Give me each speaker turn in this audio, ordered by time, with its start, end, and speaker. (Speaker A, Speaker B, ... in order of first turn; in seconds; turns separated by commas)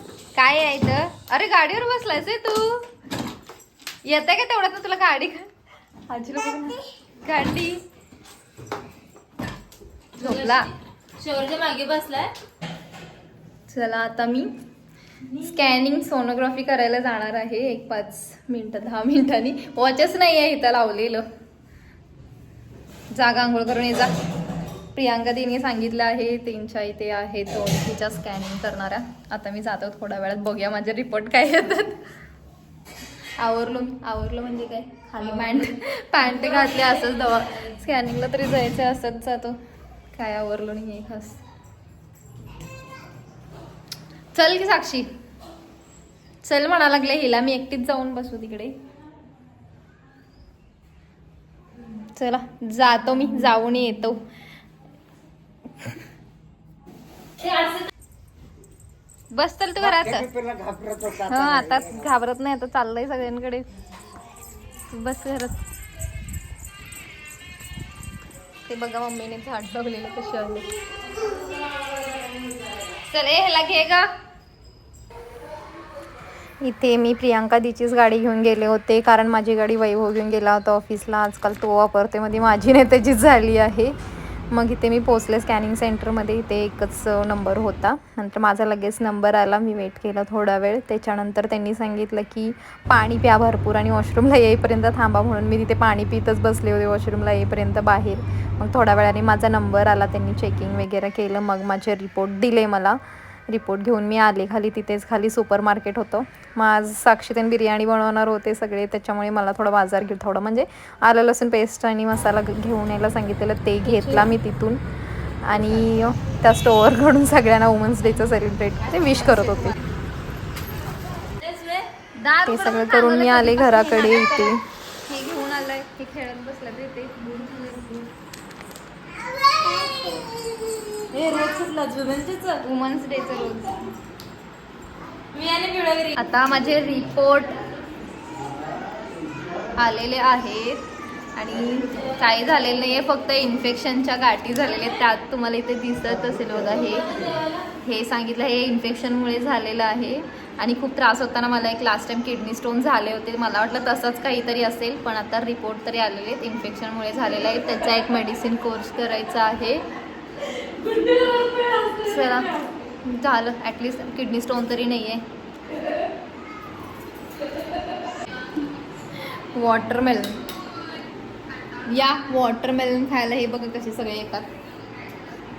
Speaker A: 0.3-2.9, Speaker A: 4.1-5.5, Speaker A: 6.1-7.8, Speaker B: 10.2-12.3, Speaker A: 10.2-10.7, Speaker A: 13.7-14.5, Speaker A: 15.3-21.2, Speaker A: 23.1-24.1, Speaker A: 24.9-32.0, Speaker A: 33.4-39.6, Speaker A: 40.1-41.4, Speaker A: 44.3-45.1, Speaker A: 46.4-48.8, Speaker A: 52.1-54.2, Speaker B: 57.4-57.8, Speaker A: 59.3-60.3, Speaker C: 59.8-62.1, Speaker A: 61.3-63.7, Speaker A: 64.9-65.6, Speaker A: 68.7-70.7, Speaker A: 73.0-74.1, Speaker A: 76.6-84.0, Speaker A: 84.5-114.8, Speaker B: 113.9-114.3, Speaker A: 115.5-119.8, Speaker B: 121.4-121.9, Speaker A: 122.2-128.1, Speaker B: 122.5-124.6, Speaker B: 129.5-130.4, Speaker B: 131.0-132.6, Speaker A: 132.6-133.8, Speaker B: 135.3-136.2, Speaker A: 136.1-137.6, Speaker A: 139.8-147.2, Speaker B: 146.9-147.6, Speaker A: 147.8-159.8, Speaker B: 160.6-162.7, Speaker A: 162.0-165.2, Speaker A: 169.5-170.4, Speaker A: 171.8-174.5